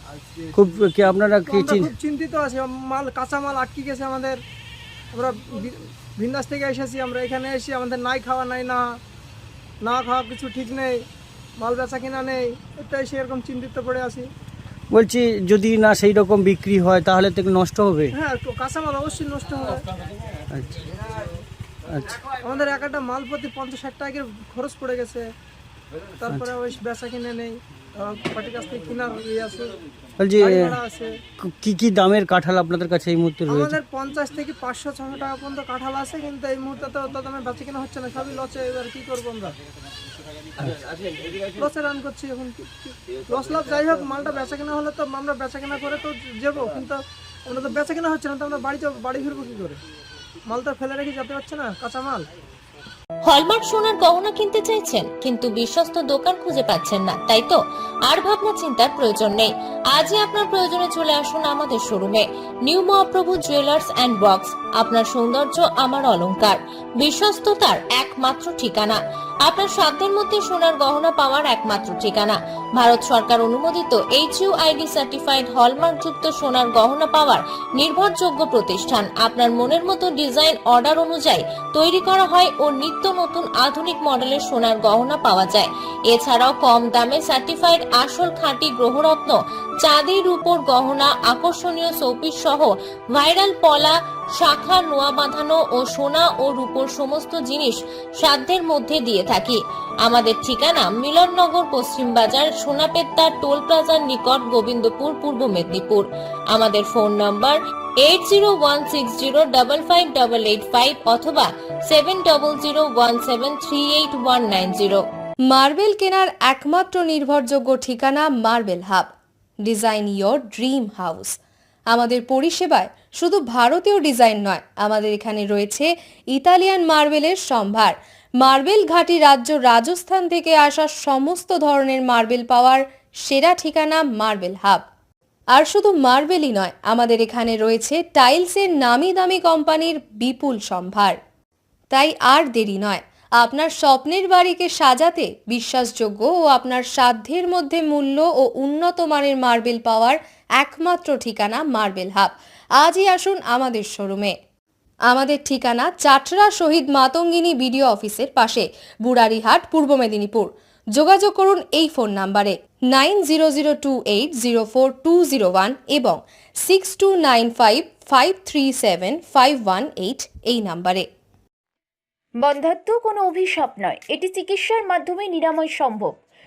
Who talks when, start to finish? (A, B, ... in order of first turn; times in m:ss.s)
0:00.5-0:01.9 A
0:01.4-0:04.4 B
0:05.1-0:08.9 B
0:09.8-0:11.0 B
0:11.6-0:14.2 B
0:14.9-0:18.1 A
0:18.1-0:19.8 B
0:22.3-0:25.3 B
0:26.2-0:29.8 B
0:30.2-0:30.8 A
0:30.3-0:31.2 B
0:31.4-0:33.8 A
0:33.4-0:39.6 B
0:41.6-0:49.8 B
0:50.5-0:52.3 B
0:53.3-1:55.0 C
1:55.5-1:59.1 D
1:59.6-2:01.4 D
2:01.9-2:14.9 D
2:15.5-2:21.2 D
2:21.9-2:34.3 D
2:35.1-2:51.0 D
2:52.4-2:56.1 E